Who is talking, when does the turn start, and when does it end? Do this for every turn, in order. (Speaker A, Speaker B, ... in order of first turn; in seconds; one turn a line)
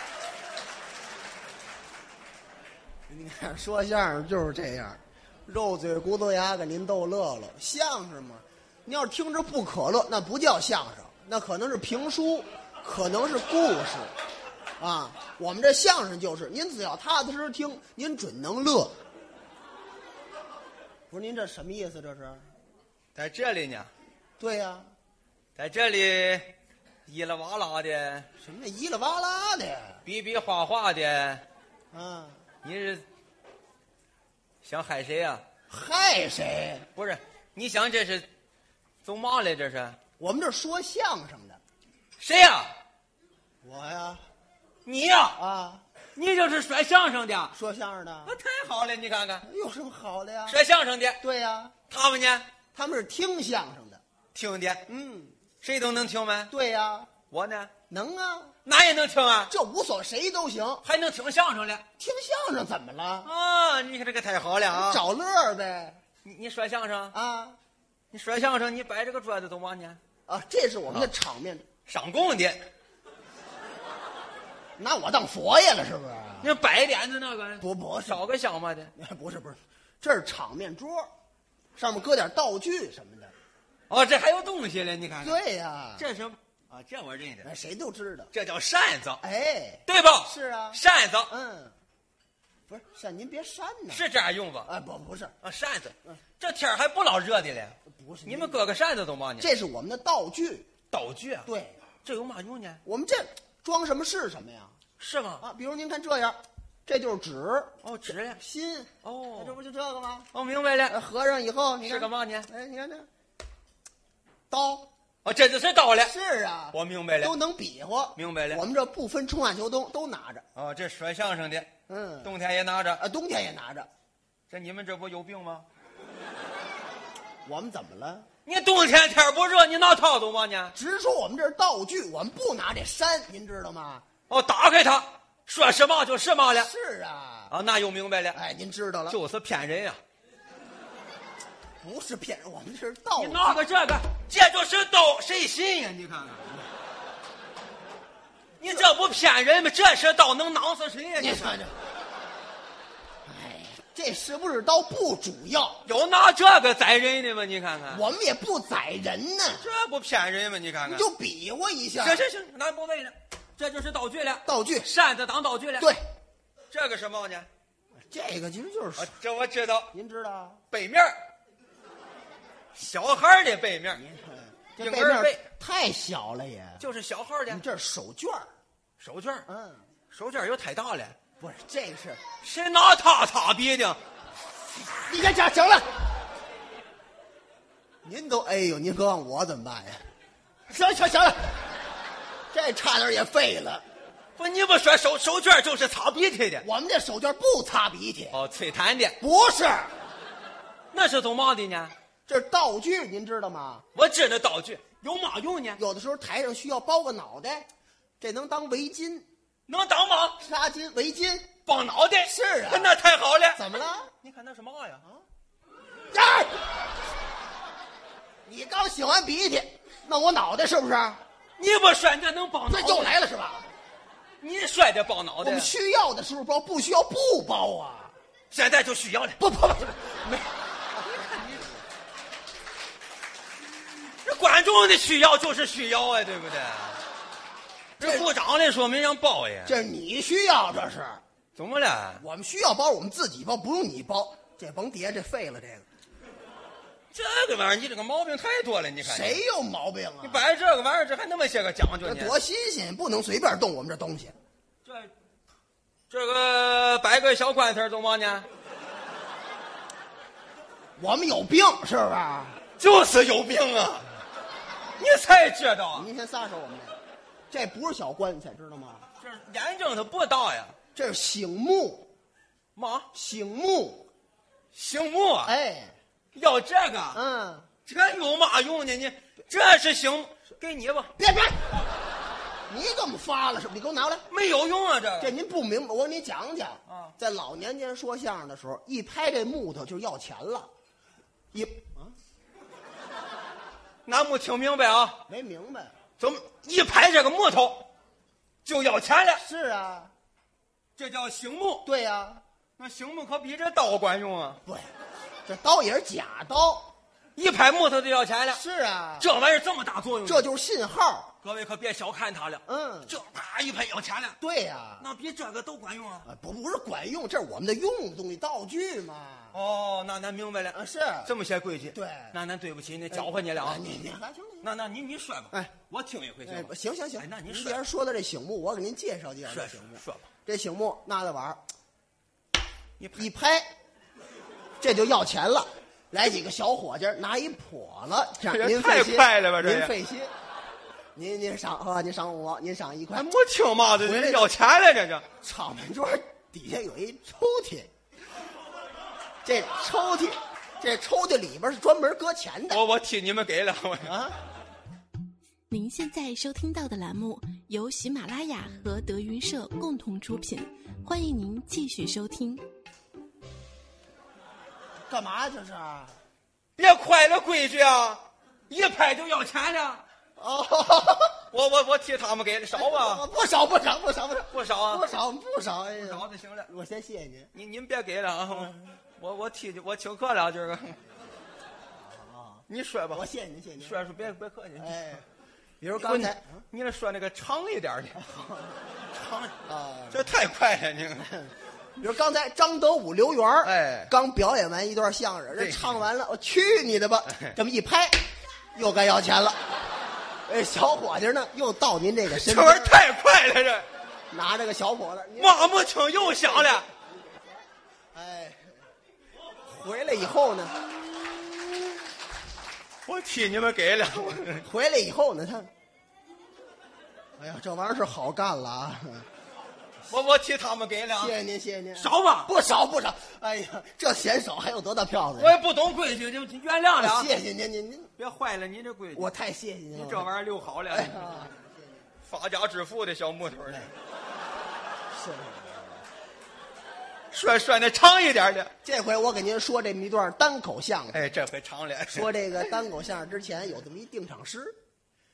Speaker A: 3.1-14.1
Speaker A: 14.8-19.0
Speaker A: 21.1-22.5
Speaker B: 23.1-23.9
Speaker A: 24.4-24.9
Speaker B: 25.6-26.5
Speaker B: 27.1-28.3
Speaker A: 28.4-30.0
Speaker B: 30.0-31.4
Speaker A: 31.9-32.4
Speaker B: 32.6-33.0
Speaker B: 34.6-35.4
Speaker A: 35.7-36.9
Speaker B: 37.0-38.3
Speaker B: 39.0-40.0
Speaker A: 40.2-41.6
Speaker B: 42.2-42.8
Speaker A: 43.6-44.3
Speaker B: 44.8-45.4
Speaker A: 45.4-45.8
Speaker B: 46.1-47.5
Speaker A: 47.5-48.4
Speaker B: 48.2-49.5
Speaker A: 49.4-50.6
Speaker B: 50.5-51.2
Speaker A: 51.2-51.7
Speaker B: 51.9-52.5
Speaker A: 52.7-54.0
Speaker B: 54.3-54.9
Speaker A: 54.9-55.4
Speaker B: 55.6-56.5
Speaker A: 56.5-57.1
Speaker B: 57.3-57.7
Speaker A: 57.9-58.5
Speaker B: 58.6-59.5
Speaker A: 59.5-60.8
Speaker B: 60.8-61.8
Speaker A: 62.0-63.3
Speaker B: 63.2-65.0
Speaker A: 64.7-66.0
Speaker B: 66.2-67.1
Speaker A: 67.1-67.6
Speaker B: 68.1-70.0
Speaker A: 70.3-71.7
Speaker B: 71.9-72.7
Speaker A: 74.8-76.5
Speaker B: 76.4-78.9
Speaker A: 77.6-78.2
Speaker A: 78.9-81.1
Speaker A: 81.8-83.3
Speaker B: 83.9-85.4
Speaker A: 85.2-86.0
Speaker B: 86.0-87.5
Speaker A: 87.4-88.3
Speaker B: 88.3-89.2
Speaker A: 89.2-91.7
Speaker B: 89.9-91.3
Speaker A: 92.7-94.0
Speaker B: 93.9-94.7
Speaker A: 94.7-95.3
Speaker B: 95.4-99.5
Speaker A: 97.8-98.6
Speaker A: 99.4-100.7
Speaker B: 100.9-101.5
Speaker A: 101.5-101.8
Speaker B: 102.0-102.8
Speaker A: 102.8-104.8
Speaker B: 105.0-105.4
Speaker A: 105.4-110.3
Speaker B: 107.8-108.4
Speaker B: 109.0-109.6
Speaker B: 110.3-111.0
Speaker A: 110.9-113.1
Speaker B: 111.8-112.5
Speaker A: 114.5-114.9
Speaker B: 115.2-116.1
Speaker A: 116.0-120.5
Speaker B: 116.7-117.3
Speaker B: 118.2-118.6
Speaker B: 120.5-121.7
Speaker A: 121.9-122.3
Speaker B: 122.2-123.0
Speaker A: 123.0-123.9
Speaker B: 124.5-125.7
Speaker A: 127.4-128.3
Speaker B: 128.4-130.7
Speaker A: 130.7-134.0
Speaker B: 134.3-136.7
Speaker A: 136.5-137.5
Speaker B: 137.5-138.4
Speaker A: 138.3-139.2
Speaker B: 139.1-140.0
Speaker A: 141.8-143.6
Speaker B: 143.2-146.5
Speaker B: 148.6-151.6
Speaker A: 151.2-151.7
Speaker A: 153.2-155.8
Speaker B: 155.8-158.0
Speaker A: 157.9-159.7
Speaker B: 159.6-161.1
Speaker A: 160.8-162.2
Speaker B: 162.0-165.9
Speaker A: 164.4-164.9
Speaker B: 166.7-167.5
Speaker A: 168.1-169.1
Speaker B: 169.0-169.9
Speaker A: 169.9-170.6
Speaker B: 170.7-171.1
Speaker B: 172.7-174.0
Speaker A: 173.9-176.8
Speaker B: 174.8-175.4
Speaker B: 176.8-177.6
Speaker A: 177.5-178.5
Speaker B: 179.0-179.4
Speaker A: 179.5-179.9
Speaker B: 180.1-181.2
Speaker A: 181.4-182.2
Speaker B: 182.4-184.0
Speaker A: 185.0-186.0
Speaker A: 188.0-190.1
Speaker A: 190.7-191.8
Speaker A: 192.5-193.8
Speaker B: 194.4-196.7
Speaker A: 196.6-198.4
Speaker B: 198.3-199.2
Speaker A: 199.2-200.0
Speaker B: 200.9-201.9
Speaker A: 202.3-203.8
Speaker B: 203.9-205.8
Speaker A: 205.8-207.7
Speaker A: 208.2-209.3
Speaker B: 209.7-210.4
Speaker A: 210.4-211.6
Speaker B: 211.7-215.0
Speaker A: 212.2-212.9
Speaker A: 213.5-214.1
Speaker A: 216.1-216.7
Speaker A: 218.4-221.2
Speaker B: 221.6-223.2
Speaker A: 222.7-223.7
Speaker B: 224.4-225.7
Speaker A: 225.4-228.1
Speaker B: 228.5-229.4
Speaker A: 229.4-231.7
Speaker B: 234.2-237.0
Speaker B: 238.0-239.8
Speaker A: 238.0-238.3
Speaker A: 239.7-241.2
Speaker B: 241.6-242.2
Speaker A: 242.2-245.8
Speaker B: 247.1-249.4
Speaker A: 249.0-250.4
Speaker B: 250.2-252.3
Speaker A: 252.0-254.3
Speaker B: 254.8-255.1
Speaker B: 256.1-258.4
Speaker A: 261.0-262.6
Speaker B: 262.8-264.1
Speaker B: 265.0-266.1
Speaker A: 265.9-267.0
Speaker A: 267.5-269.1
Speaker B: 269.2-270.8
Speaker A: 270.9-272.1
Speaker B: 272.7-273.1
Speaker A: 273.1-274.1
Speaker B: 274.7-275.5
Speaker A: 275.4-275.9
Speaker B: 276.3-277.2
Speaker A: 277.1-277.7
Speaker B: 277.9-281.1
Speaker A: 281.2-281.7
Speaker A: 282.7-284.2
Speaker B: 284.3-285.3
Speaker A: 285.2-290.7
Speaker B: 286.9-287.1
Speaker A: 291.5-292.2
Speaker B: 294.1-295.2
Speaker A: 295.3-295.9
Speaker B: 296.2-297.9
Speaker B: 298.6-299.4
Speaker A: 299.4-300.1
Speaker B: 301.0-301.9
Speaker A: 301.8-302.4
Speaker B: 302.8-304.6
Speaker A: 304.6-304.9
Speaker A: 305.4-306.9
Speaker B: 307.4-308.6
Speaker A: 308.5-309.3
Speaker B: 309.2-310.5
Speaker A: 310.2-311.3
Speaker B: 311.4-314.4
Speaker A: 312.6-313.1
Speaker A: 314.4-315.1
Speaker B: 315.0-316.3
Speaker A: 316.2-319.6
Speaker B: 319.5-323.9
Speaker A: 320.7-321.3
Speaker A: 321.9-322.4
Speaker A: 323.1-324.7
Speaker B: 324.6-327.8
Speaker A: 326.4-331.6
Speaker B: 329.5-330.3
Speaker B: 333.0-333.3
Speaker A: 333.1-333.7
Speaker A: 334.8-340.3
Speaker B: 338.5-339.9
Speaker A: 341.1-343.3
Speaker B: 343.1-345.3
Speaker A: 344.0-344.5
Speaker A: 345.4-347.9
Speaker A: 349.4-352.8
Speaker B: 352.7-354.2
Speaker A: 354.0-354.4
Speaker C: 355.7-362.6
Speaker A: 365.1-366.2
Speaker B: 366.8-370.0
Speaker A: 370.4-371.4
Speaker B: 371.5-373.2
Speaker A: 372.7-377.5
Speaker B: 374.5-375.1
Speaker B: 376.0-376.7
Speaker B: 377.5-381.0
Speaker A: 378.5-378.9
Speaker A: 381.9-384.0
Speaker B: 382.7-383.3
Speaker B: 383.8-385.1
Speaker A: 384.8-385.2
Speaker A: 385.8-386.6
Speaker B: 385.9-388.2
Speaker A: 388.1-388.8
Speaker B: 389.1-389.6
Speaker A: 389.6-390.3
Speaker B: 390.1-391.3
Speaker A: 391.2-399.7
Speaker B: 393.6-394.1
Speaker B: 395.5-395.9
Speaker A: 400.5-403.0
Speaker B: 402.3-403.9
Speaker A: 404.3-407.6
Speaker B: 405.4-406.9
Speaker A: 408.1-408.8
Speaker A: 409.6-410.9
Speaker B: 413.1-414.6
Speaker A: 414.5-415.7
Speaker A: 417.4-419.3
Speaker B: 420.1-421.3
Speaker A: 421.2-425.6
Speaker B: 421.9-422.5
Speaker B: 425.4-427.3
Speaker A: 427.0-428.1
Speaker B: 428.2-429.3
Speaker A: 429.1-430.3
Speaker B: 429.9-431.5
Speaker A: 430.9-431.8
Speaker B: 432.2-433.9
Speaker A: 435.1-436.0
Speaker B: 437.3-438.7
Speaker A: 438.8-441.2
Speaker B: 441.1-442.5
Speaker A: 442.1-444.8